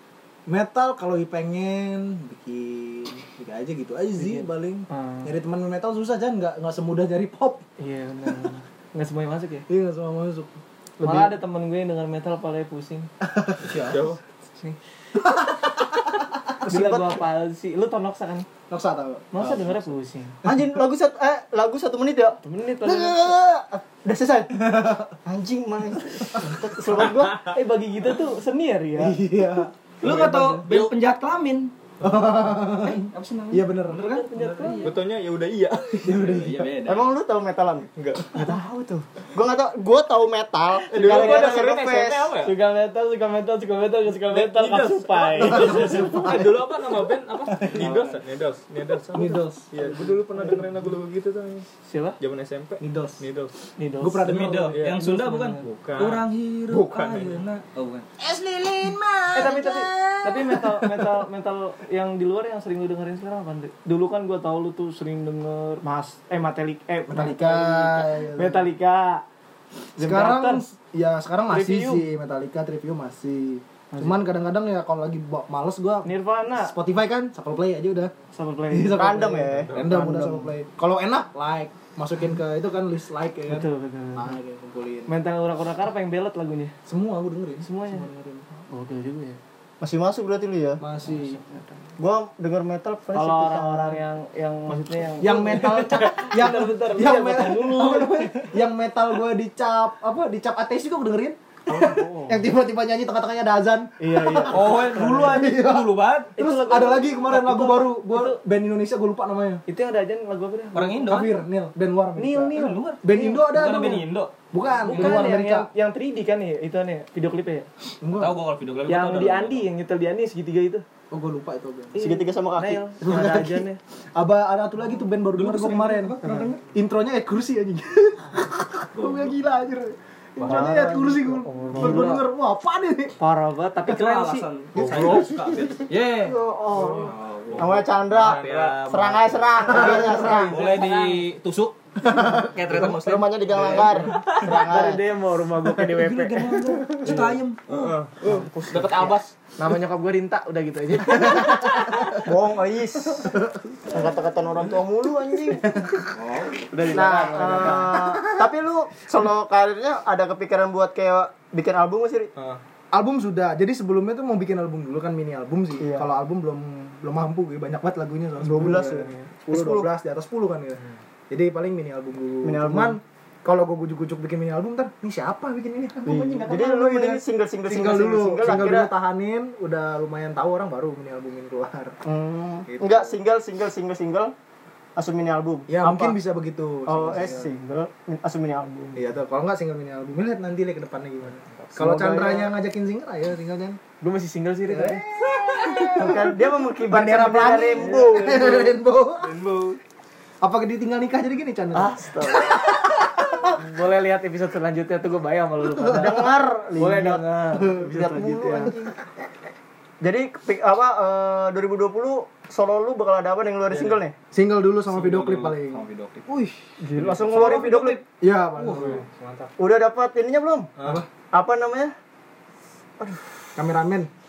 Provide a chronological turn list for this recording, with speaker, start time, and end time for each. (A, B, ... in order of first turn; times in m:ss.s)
0:00.5-0:07.6 A
0:04.2-0:05.3 B
0:07.8-0:09.7 B
0:09.7-0:11.3 A
0:11.0-0:13.1 B
0:13.2-0:13.7 A
0:13.7-0:13.9 C
0:13.8-0:14.2 D
0:16.7-0:17.1 E
0:16.7-0:18.5 B
0:18.7-0:19.2 A
0:19.3-0:20.4 B
0:20.4-0:24.7 E
0:22.4-0:23.4 B
0:24.7-0:25.0 A
0:25.2-0:27.5 E
0:27.3-0:29.2 B
0:29.0-0:30.7 A
0:30.0-0:30.8 B
0:30.0-0:31.7 C
0:32.0-0:34.2 A
0:32.7-0:35.0 C
0:33.9-0:35.0 B
0:34.8-0:36.2 D
0:36.0-0:36.7 A
0:36.0-0:37.1 C
0:36.8-0:42.5 E
0:38.0-0:38.5 D
0:38.3-0:39.0 B
0:40.9-0:42.5 D
0:40.9-0:46.4 B
0:44.3-0:51.6 D
0:45.4-0:46.6 A
0:47.6-0:48.0 A
0:47.7-0:48.2 C
0:49.1-0:50.1 A
0:51.8-0:52.2 B
0:52.2-0:53.5 D
0:52.8-0:53.2 A
0:53.8-0:55.6 B
0:54.0-0:54.8 A
0:54.2-0:58.1 C
0:54.7-0:55.0 D
0:55.6-0:57.4 D
0:58.2-1:01.1 A
0:59.3-1:09.2 B
1:07.1-1:08.6 A
1:10.0-1:10.6 B
1:10.0-1:18.1 A
1:11.5-1:12.0 B
1:13.9-1:14.2 B
1:16.0-1:16.7 B
1:18.3-1:20.3 B
1:18.7-1:25.1 A
1:18.9-1:19.7 E
1:19.7-1:19.9 D
1:23.5-1:24.3 B
1:25.1-1:26.7 B
1:26.8-1:28.4 A
1:27.6-1:29.4 B
1:29.8-1:30.8 E
1:30.8-1:31.4 A
1:31.1-1:31.7 B
1:32.0-1:34.0 E
1:33.1-1:38.5 B
1:35.2-1:49.6 A
1:41.7-1:42.4 B
1:44.0-1:45.5 B
1:44.5-1:46.3 C
1:46.4-1:48.4 B
1:49.7-1:51.1 B
1:50.7-1:51.4 C
1:51.0-1:55.7 A
1:52.2-1:54.3 C
1:54.8-1:57.7 B
1:58.0-1:58.4 A
1:58.1-1:59.7 C
1:58.9-2:00.8 B
2:01.1-2:02.1 A
2:01.9-2:03.8 B
2:02.0-2:02.8 E
2:03.0-2:13.1 A
2:05.3-2:06.6 C
2:06.2-2:06.5 B
2:08.9-2:09.4 C
2:10.4-2:12.2 B
2:11.8-2:12.1 E
2:13.2-2:15.2 B
2:13.8-2:16.4 C
2:14.8-2:15.2 A
2:16.2-2:20.6 E
2:16.2-2:17.1 B
2:17.0-2:24.5 C
2:17.5-2:18.9 D
2:19.7-2:20.2 A
2:19.7-2:21.2 B
2:22.0-2:22.5 A
2:22.8-2:25.0 E
2:24.1-2:26.8 B
2:25.6-2:27.9 C
2:27.7-2:29.2 D
2:28.2-2:32.2 B
2:31.2-2:31.5 A
2:32.1-2:33.4 E
2:33.9-2:35.7 E
2:35.6-2:36.0 A
2:36.1-2:36.7 C
2:36.7-2:38.0 B
2:36.7-2:37.5 D
2:36.9-2:42.3 E
2:37.6-2:38.4 A
2:42.9-3:02.0 A
2:45.8-2:46.0 E
2:48.4-2:49.9 E
2:48.7-2:49.2 B
2:52.4-2:53.0 E
2:56.0-2:58.9 E
3:02.0-3:04.3 E
3:02.6-3:03.2 A
3:05.0-3:06.2 E
3:05.7-3:07.5 A
3:06.8-3:08.9 E
3:08.9-3:13.8 A
3:11.8-3:12.4 E
3:14.0-3:15.0 B
3:14.7-3:19.3 A
3:15.8-3:18.6 E
3:17.8-3:18.6 B
3:19.2-3:19.8 D
3:20.4-3:23.5 A
3:21.7-3:22.6 B
3:23.6-3:28.7 B
3:25.6-3:26.2 A
3:25.9-3:28.9 E
3:27.6-3:27.8 A
3:28.5-3:28.8 A
3:30.0-3:34.1 E
3:34.3-3:35.8 A
3:34.9-3:36.2 C
3:36.8-3:37.6 B
3:36.9-3:38.0 E
3:37.0-3:37.6 D
3:37.4-3:37.9 C
3:38.2-3:39.0 A
3:38.6-3:39.5 D
3:39.6-3:40.7 E
3:40.8-3:41.1 A
3:41.3-3:41.9 E
3:43.0-3:43.4 E
3:43.6-3:44.1 A